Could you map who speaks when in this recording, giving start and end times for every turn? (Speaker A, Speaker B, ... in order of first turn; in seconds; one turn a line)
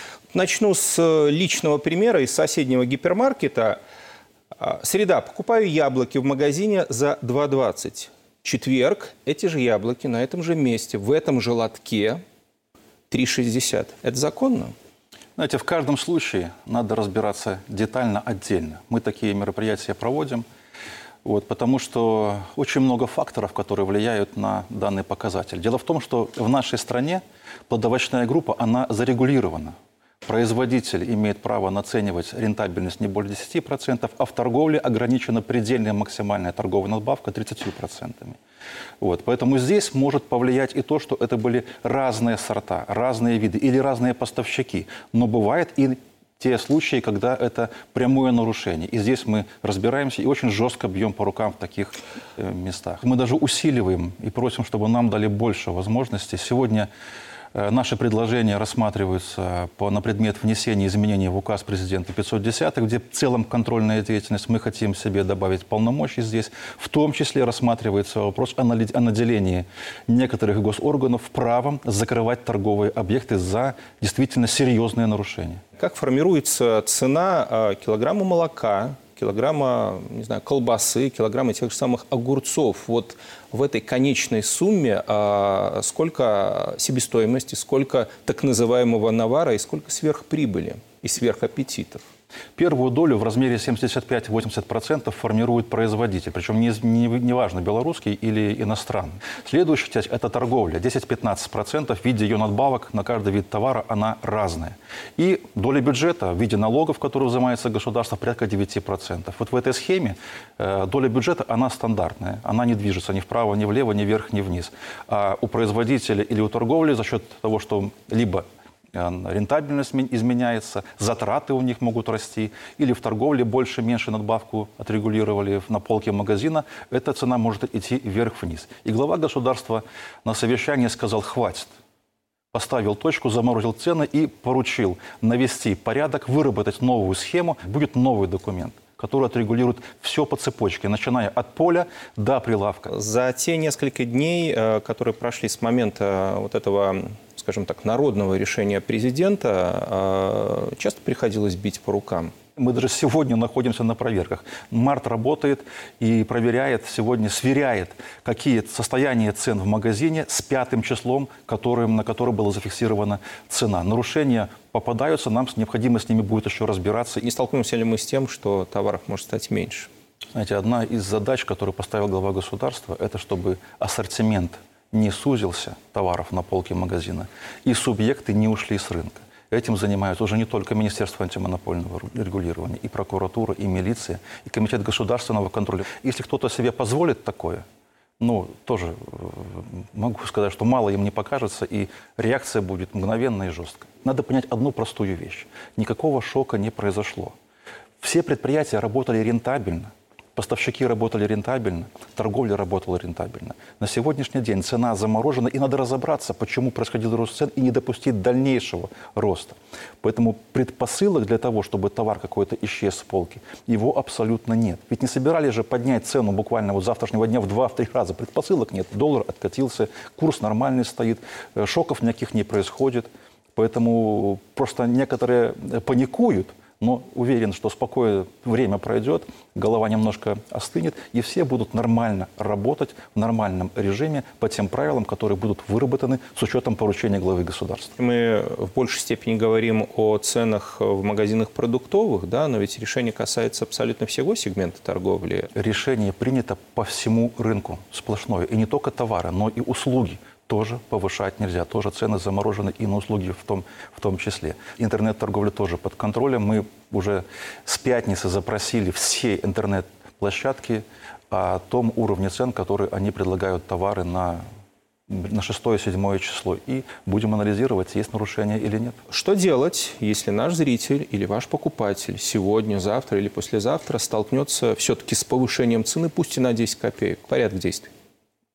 Speaker A: 0.3-3.8
Speaker A: 4.6-12.2
Speaker A: 13.1-14.7
Speaker B: 15.4-20.4
Speaker B: 21.2-38.4
Speaker B: 39.0-56.9
Speaker B: 57.5-75.6
Speaker A: 75.8-92.0
Speaker B: 92.6-131.7
Speaker B: 132.5-142.9
Speaker A: 142.9-152.3
Speaker B: 152.6-167.2
Speaker A: 167.2-169.9
Speaker B: 170.3-187.6
Speaker B: 188.2-197.3
Speaker B: 198.0-237.9
Speaker A: 238.0-245.5
Speaker B: 245.6-264.4
Speaker B: 265.1-269.0
Speaker A: 269.1-277.9